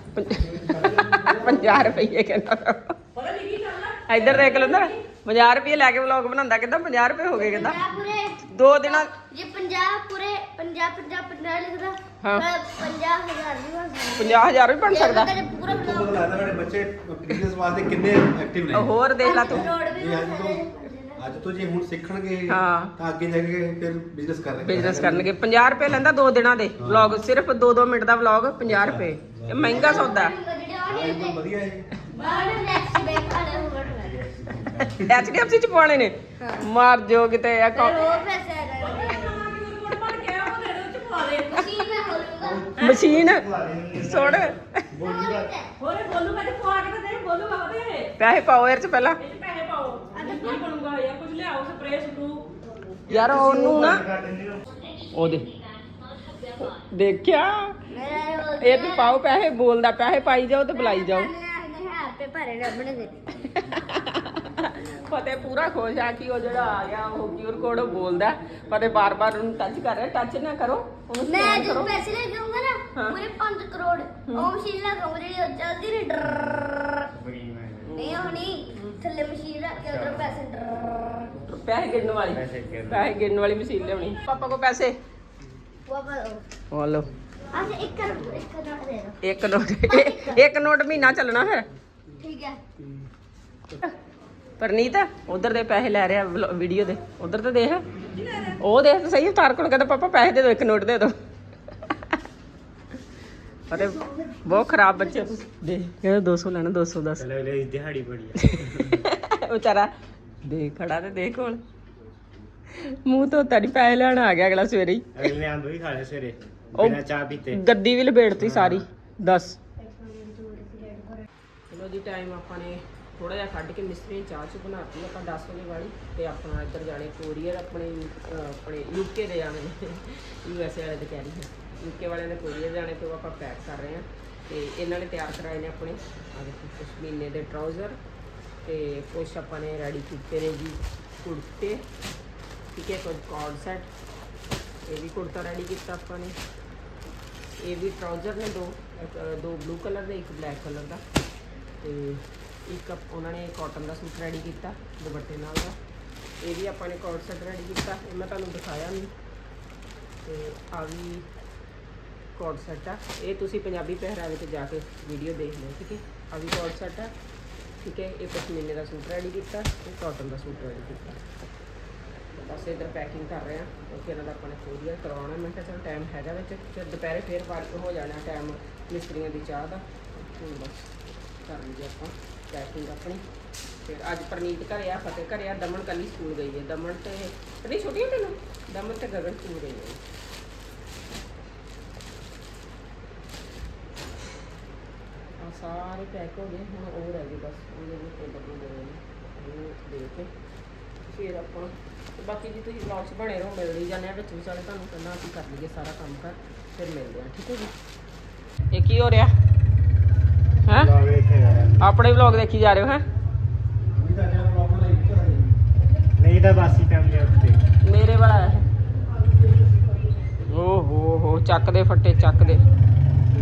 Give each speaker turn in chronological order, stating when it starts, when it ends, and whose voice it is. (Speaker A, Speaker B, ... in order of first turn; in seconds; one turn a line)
Speaker A: 0.1-3.0
Speaker B: 0.6-1.9
Speaker C: 3.1-5.0
Speaker A: 4.1-7.8
Speaker D: 7.3-16.4
Speaker A: 8.5-9.1
Speaker A: 12.2-12.5
Speaker A: 14.2-15.3
Speaker B: 15.6-18.9
Speaker A: 18.7-19.7
Speaker D: 19.2-21.5
Speaker B: 19.4-20.7
Speaker B: 21.2-25.3
Speaker A: 22.5-22.9
Speaker A: 24.6-30.4
Speaker B: 26.8-27.2
Speaker B: 28.7-30.0
Speaker D: 29.6-31.5
Speaker B: 30.9-31.9
Speaker C: 32.1-33.5
Speaker D: 32.1-34.2
Speaker E: 33.9-34.9
Speaker A: 34.9-38.3
Speaker D: 37.7-39.4
Speaker C: 38.8-41.7
Speaker D: 41.5-42.6
Speaker E: 42.4-45.5
Speaker C: 42.8-43.1
Speaker A: 42.8-44.8
Speaker D: 45.0-45.7
Speaker C: 45.8-48.1
Speaker A: 48.2-49.2
Speaker C: 49.2-52.5
Speaker D: 50.1-50.6
Speaker A: 53.1-54.1
Speaker E: 53.1-54.6
Speaker A: 55.1-55.5
Speaker A: 56.6-57.8
Speaker D: 57.9-59.2
Speaker A: 58.6-61.3
Speaker D: 60.7-63.3
Speaker A: 63.4-72.0
Speaker D: 71.2-77.0
Speaker A: 72.9-73.3
Speaker A: 74.3-74.5
Speaker E: 77.1-78.3
Speaker D: 77.9-81.1
Speaker A: 78.7-79.0
Speaker E: 79.8-80.3
Speaker A: 81.5-85.0
Speaker E: 82.3-83.1
Speaker D: 85.9-86.5
Speaker A: 86.7-87.1
Speaker D: 87.5-90.4
Speaker A: 89.2-91.7
Speaker D: 92.2-92.6
Speaker A: 94.6-97.8
Speaker C: 98.1-98.6
Speaker A: 98.6-101.2
Speaker A: 103.7-107.3
Speaker E: 107.2-109.0
Speaker A: 108.4-109.9
Speaker A: 110.4-111.6
Speaker A: 112.8-115.3
Speaker E: 115.2-117.6
Speaker A: 116.8-119.6
Speaker E: 118.4-118.8
Speaker D: 119.8-121.2
Speaker A: 121.7-138.0
Speaker A: 138.6-141.8
Speaker A: 142.7-143.9
Speaker A: 144.9-146.4
Speaker A: 147.6-151.0
Speaker A: 151.8-155.8
Speaker A: 156.4-159.1
Speaker A: 160.2-161.3
Speaker A: 162.4-167.1
Speaker A: 167.8-171.1
Speaker A: 172.3-180.9
Speaker A: 181.4-183.2
Speaker A: 183.8-190.0
Speaker A: 195.4-200.3
Speaker A: 201.0-207.7
Speaker A: 208.7-209.3
Speaker A: 210.7-210.9
Speaker E: 210.7-211.8
Speaker A: 211.8-213.0
Speaker B: 213.9-215.5
Speaker E: 216.2-217.6
Speaker A: 217.8-218.7
Speaker A: 220.5-222.6